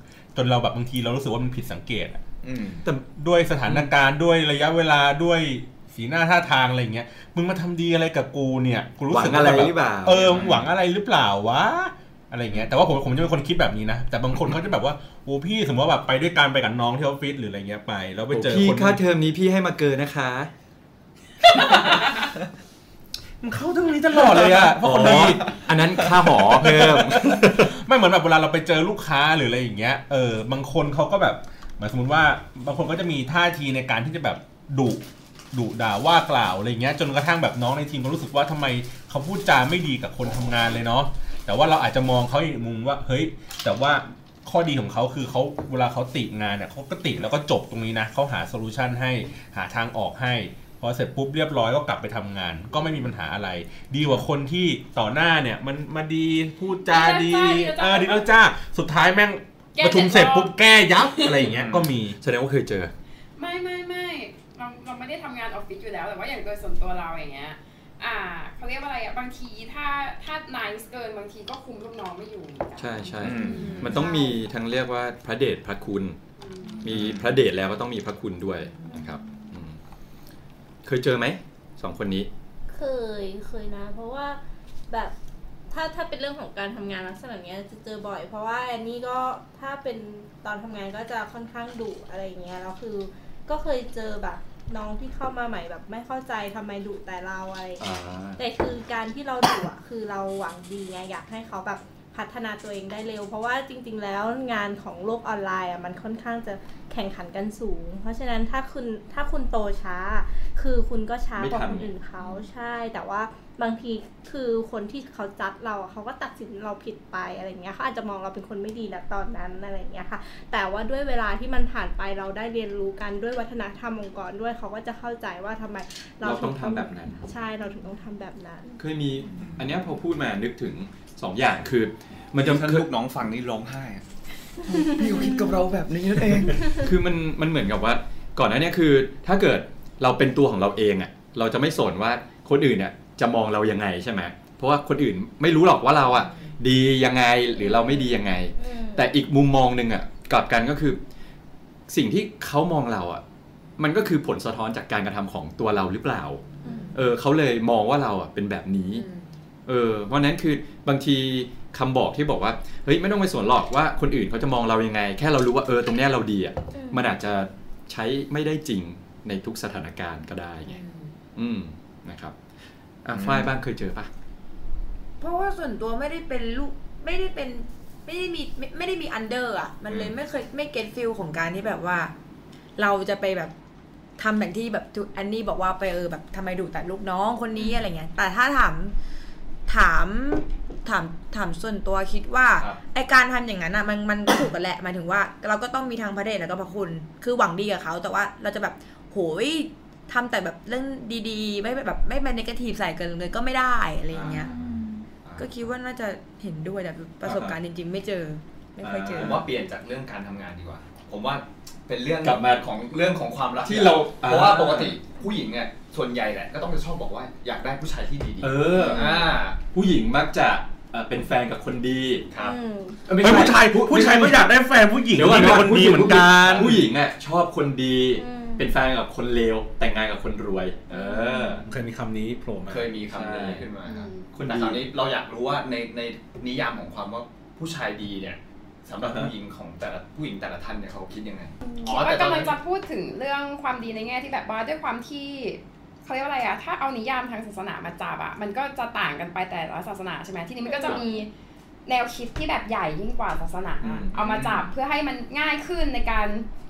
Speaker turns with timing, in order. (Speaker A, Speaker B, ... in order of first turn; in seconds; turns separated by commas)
Speaker A: 0.3-2.2, Speaker B: 2.4-2.8, Speaker A: 3.1-19.0, Speaker C: 9.1-10.6, Speaker B: 10.3-10.6, Speaker C: 18.3-20.5, Speaker A: 23.4-25.5, Speaker C: 24.2-27.7, Speaker A: 26.3-62.2, Speaker D: 56.8-58.3, Speaker D: 59.8-61.4, Speaker C: 61.6-62.9, Speaker D: 63.4-74.1, Speaker C: 72.8-76.2, Speaker B: 73.2-74.0, Speaker E: 73.5-74.4, Speaker D: 76.4-76.8, Speaker C: 76.8-79.8, Speaker B: 76.8-77.3, Speaker E: 78.8-79.5, Speaker C: 80.8-82.3, Speaker E: 82.7-84.4, Speaker E: 84.9-85.1, Speaker E: 85.7-97.8, Speaker C: 97.8-98.4, Speaker E: 98.4-128.8, Speaker C: 111.4-111.9, Speaker C: 126.2-127.2, Speaker C: 128.8-132.9, Speaker B: 129.3-129.6, Speaker B: 132.4-134.0, Speaker B: 134.6-136.8, Speaker C: 136.7-151.0, Speaker E: 147.6-149.1, Speaker C: 151.9-153.2, Speaker C: 153.8-159.1, Speaker E: 156.6-157.0, Speaker C: 159.7-170.8, Speaker E: 166.7-167.1, Speaker F: 170.7-171.1, Speaker C: 171.3-172.3, Speaker C: 173.0-174.1, Speaker B: 173.1-173.5, Speaker F: 175.2-182.1, Speaker F: 182.8-183.5, Speaker F: 184.2-188.9, Speaker F: 189.7-204.5, Speaker B: 204.1-204.4, Speaker C: 204.2-204.4, Speaker B: 205.2-205.5, Speaker F: 205.4-209.4, Speaker C: 207.2-207.5, Speaker C: 208.8-209.4, Speaker B: 209.1-219.6, Speaker C: 212.2-212.7, Speaker C: 213.6-214.9, Speaker C: 218.4-222.3, Speaker E: 218.8-219.3, Speaker B: 222.3-222.6, Speaker E: 222.3-223.0, Speaker C: 223.1-224.5, Speaker A: 223.2-226.9, Speaker C: 225.1-231.6, Speaker B: 226.4-226.8, Speaker E: 228.1-228.7, Speaker E: 230.9-231.6, Speaker A: 231.6-232.9, Speaker B: 232.7-242.5, Speaker C: 233.1-233.7, Speaker D: 233.8-234.3, Speaker C: 234.3-234.9, Speaker A: 239.0-239.3, Speaker D: 241.6-251.3, Speaker E: 250.7-251.0, Speaker D: 251.8-256.5, Speaker C: 253.8-254.7